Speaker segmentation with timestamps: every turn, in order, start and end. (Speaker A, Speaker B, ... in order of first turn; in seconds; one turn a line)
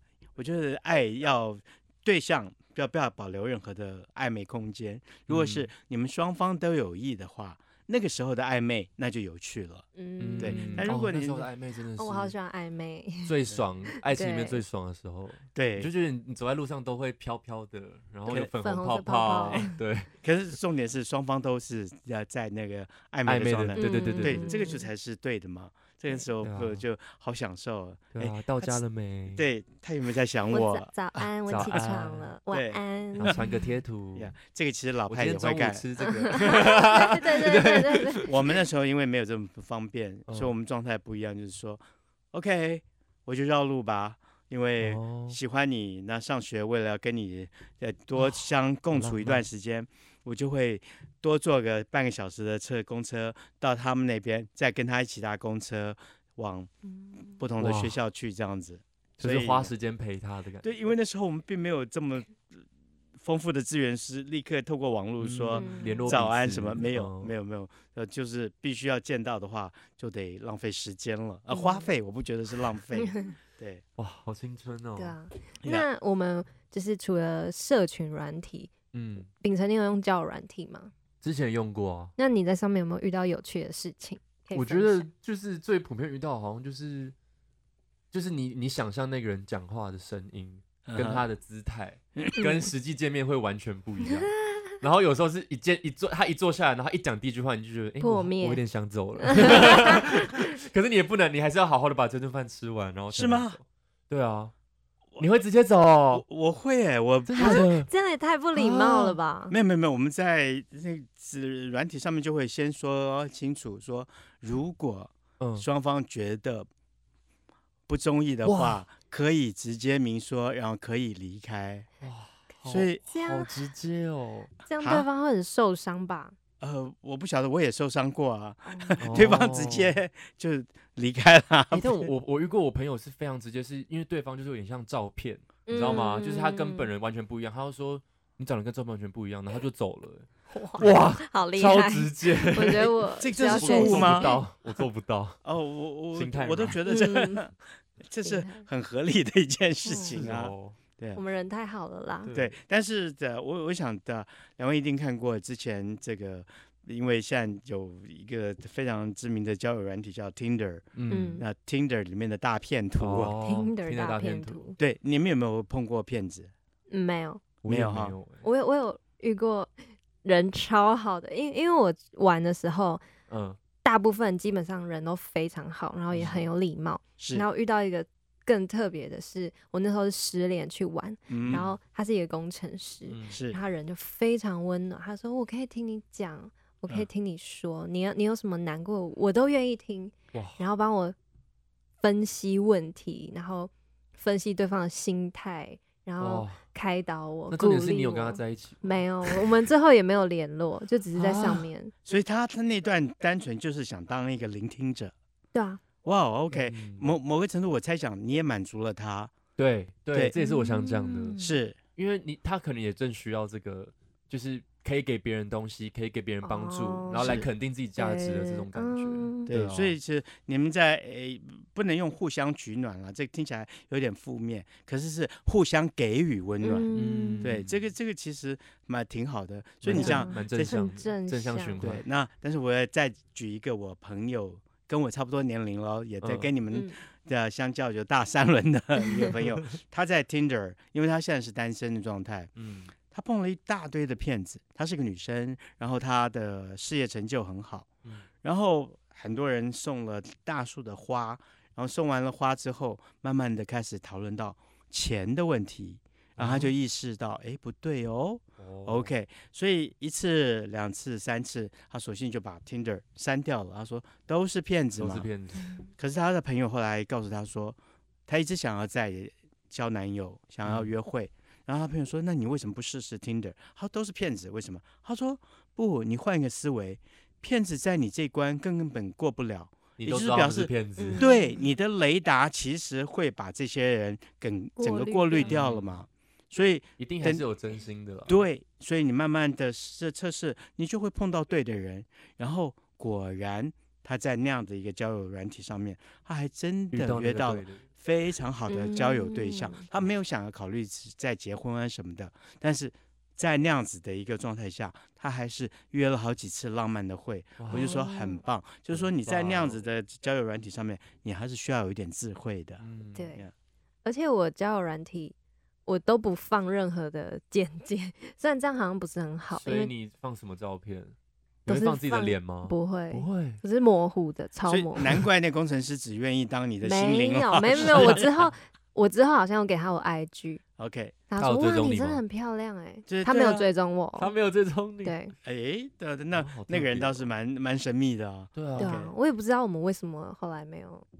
Speaker A: 0.3-9.8
Speaker B: 5.3-5.7
Speaker C: 9.9-10.9
Speaker B: 10.2-12.3
Speaker A: 10.4-11.5
Speaker C: 12.0-13.3
Speaker B: 13.2-20.1
Speaker C: 14.0-14.6
Speaker A: 15.5-15.9
Speaker C: 18.4-19.7
Speaker A: 20.2-30.9
Speaker B: 23.2-24.5
Speaker C: 23.8-24.9
Speaker B: 26.4-26.8
Speaker B: 28.1-29.4
Speaker C: 30.5-33.4
Speaker B: 31.5-32.3
Speaker A: 32.5-33.4
Speaker B: 33.2-34.3
Speaker A: 34.1-35.9
Speaker B: 35.1-38.3
Speaker C: 36.0-38.3
Speaker A: 38.2-56.7
Speaker B: 44.8-45.4
Speaker B: 48.2-49.4
Speaker C: 56.8-57.4
Speaker A: 57.4-59.7
Speaker B: 57.6-58.0
Speaker B: 59.2-60.7
Speaker A: 60.6-62.5
Speaker A: 63.2-73.8
Speaker B: 65.2-67.3
Speaker C: 65.5-66.2
Speaker C: 71.5-71.9
Speaker C: 73.0-73.3
Speaker B: 74.0-75.2
Speaker C: 75.0-78.7
Speaker B: 78.9-79.3
Speaker C: 79.4-80.9
Speaker B: 81.2-82.1
Speaker C: 82.2-85.1
Speaker B: 84.5-87.1
Speaker B: 88.1-104.5
Speaker A: 90.8-91.2
Speaker C: 98.0-98.6
Speaker C: 99.2-100.4
Speaker A: 103.1-103.6
Speaker B: 105.2-106.2
Speaker A: 106.1-107.7
Speaker B: 107.3-107.9
Speaker C: 107.4-109.5
Speaker B: 108.5-109.2
Speaker A: 109.5-116.7
Speaker B: 115.4-115.7
Speaker A: 117.9-121.9
Speaker B: 118.4-118.8
Speaker B: 122.0-124.5
Speaker A: 122.7-123.0
Speaker C: 123.0-123.5
Speaker C: 124.7-126.3
Speaker A: 124.8-125.1
Speaker A: 126.6-132.1
Speaker C: 128.7-129.0
Speaker B: 129.0-130.0
Speaker B: 131.7-140.3
Speaker C: 135.7-136.9
Speaker C: 140.5-144.4
Speaker B: 140.8-145.4
Speaker A: 143.2-144.3
Speaker A: 145.4-151.2
Speaker B: 146.1-146.8
Speaker C: 146.8-147.5
Speaker C: 148.2-148.6
Speaker C: 149.8-150.2
Speaker B: 150.1-150.8
Speaker C: 151.1-152.3
Speaker B: 152.2-152.6
Speaker A: 152.3-163.3
Speaker B: 160.9-161.4
Speaker C: 161.1-161.4
Speaker B: 163.0-164.6
Speaker C: 163.4-164.8
Speaker A: 164.8-166.5
Speaker C: 166.9-167.4
Speaker B: 167.6-168.4
Speaker A: 167.7-168.1
Speaker C: 168.4-169.7
Speaker C: 170.2-173.0
Speaker B: 173.3-173.6
Speaker C: 173.8-191.2
Speaker B: 176.1-176.4
Speaker A: 177.2-177.4
Speaker A: 181.3-181.7
Speaker B: 183.1-183.4
Speaker A: 183.3-183.6
Speaker B: 190.3-190.6
Speaker C: 192.0-201.9
Speaker B: 196.2-196.6
Speaker B: 197.5-199.5
Speaker B: 201.1-201.7
Speaker A: 202.1-205.1
Speaker C: 205.5-205.8
Speaker A: 206.0-209.3
Speaker B: 206.5-207.1
Speaker B: 209.6-211.4
Speaker C: 210.3-211.6
Speaker A: 211.4-211.8
Speaker B: 211.9-219.9
Speaker C: 216.4-217.4
Speaker A: 217.2-217.5
Speaker C: 218.0-219.5
Speaker A: 219.5-226.9
Speaker C: 226.6-227.5
Speaker B: 226.9-227.8
Speaker A: 227.4-230.8
Speaker B: 229.8-232.0
Speaker C: 229.9-231.8
Speaker A: 231.8-242.5
Speaker B: 236.2-236.5
Speaker B: 242.6-242.9
Speaker A: 243.1-247.9
Speaker A: 248.4-265.3
Speaker B: 256.4-256.7
Speaker B: 258.6-259.1
Speaker B: 265.0-265.7
Speaker A: 266.0-287.4
Speaker B: 270.6-270.9
Speaker B: 280.0-281.2
Speaker C: 281.0-281.6
Speaker C: 284.8-285.6
Speaker B: 285.4-286.0
Speaker B: 287.0-288.4
Speaker A: 288.3-312.8
Speaker B: 296.9-297.8
Speaker C: 298.7-299.8
Speaker B: 307.6-308.0
Speaker C: 307.7-308.4
Speaker B: 308.9-309.8
Speaker B: 312.8-313.3
Speaker C: 313.1-313.4
Speaker C: 314.0-315.3
Speaker C: 315.9-319.9
Speaker B: 319.5-321.1
Speaker B: 321.6-323.6
Speaker C: 321.7-325.1
Speaker A: 324.6-328.2
Speaker C: 326.8-330.6
Speaker B: 327.8-328.4
Speaker A: 330.8-331.1
Speaker C: 331.3-334.3
Speaker B: 331.4-332.2
Speaker A: 333.1-333.7
Speaker B: 334.2-335.2
Speaker C: 335.0-335.3
Speaker A: 335.4-339.1
Speaker B: 336.3-337.3
Speaker B: 338.6-338.9
Speaker C: 338.8-341.1